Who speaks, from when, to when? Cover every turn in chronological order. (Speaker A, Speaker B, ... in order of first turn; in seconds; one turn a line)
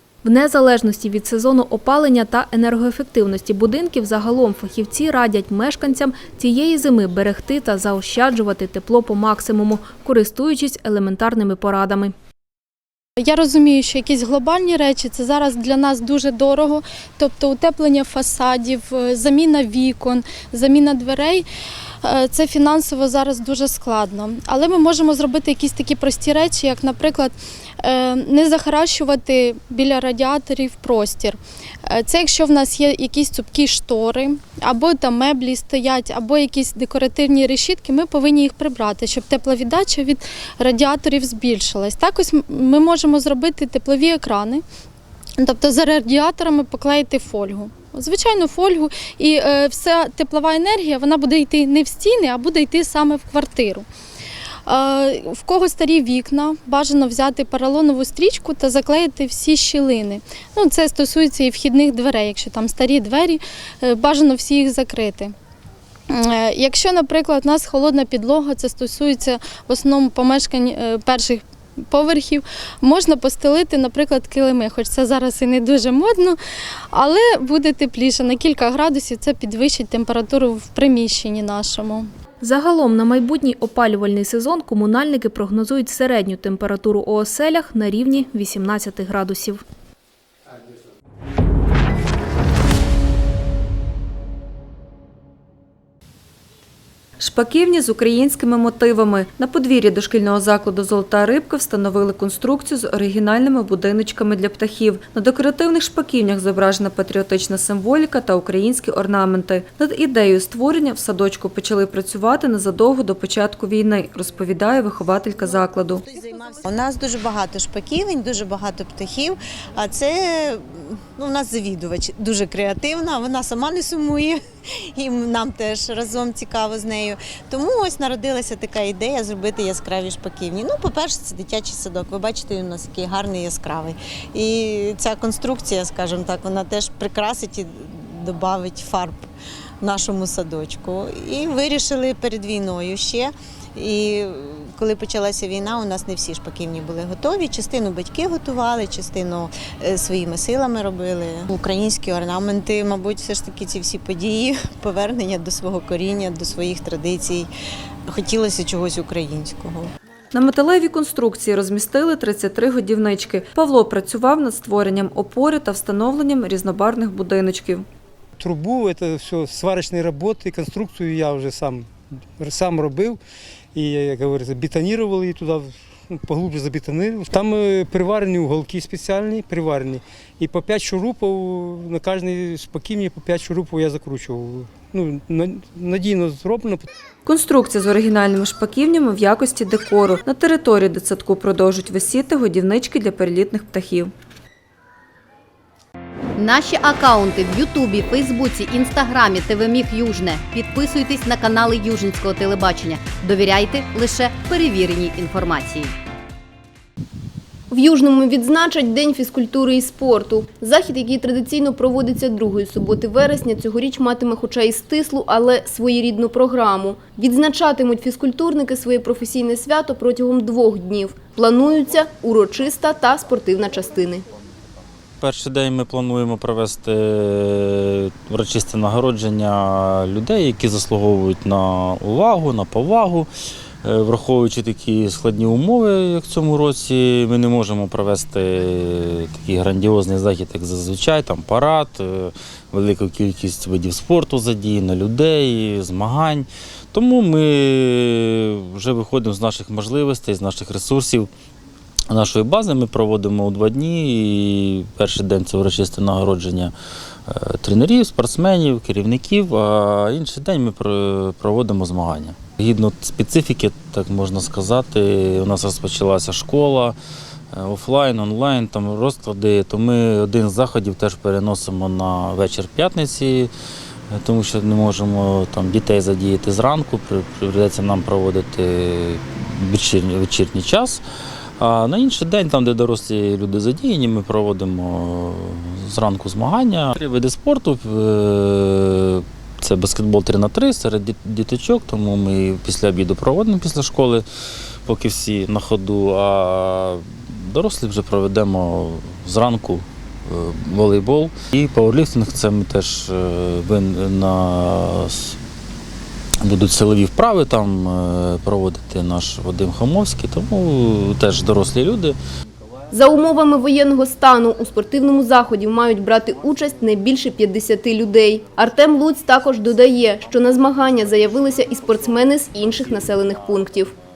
Speaker A: 0.2-12.1
Speaker B: 13.2-21.5
Speaker B: 22.0-44.6
Speaker B: 45.4-53.9
Speaker B: 54.7-65.3
Speaker B: 66.1-76.4
Speaker B: 76.9-82.1
Speaker A: 82.4-89.6
Speaker C: 97.2-116.0
Speaker D: 116.1-124.4
Speaker D: 125.0-139.2
Speaker D: 139.8-157.5
Speaker D: 158.1-159.9
Speaker C: 160.3-167.8
Speaker E: 168.4-173.2
Speaker E: 173.8-186.9
Speaker C: 187.3-194.1
Speaker F: 196.4-206.0
Speaker G: 207.7-224.2
Speaker H: 225.2-233.3
Speaker H: 233.8-251.3
Speaker H: 252.1-256.7
Speaker H: 257.3-267.0
Speaker H: 267.5-273.5
Speaker H: 274.1-281.0
Speaker H: 281.6-294.2
Speaker H: 294.9-305.4
Speaker H: 306.4-312.2
Speaker G: 312.9-323.9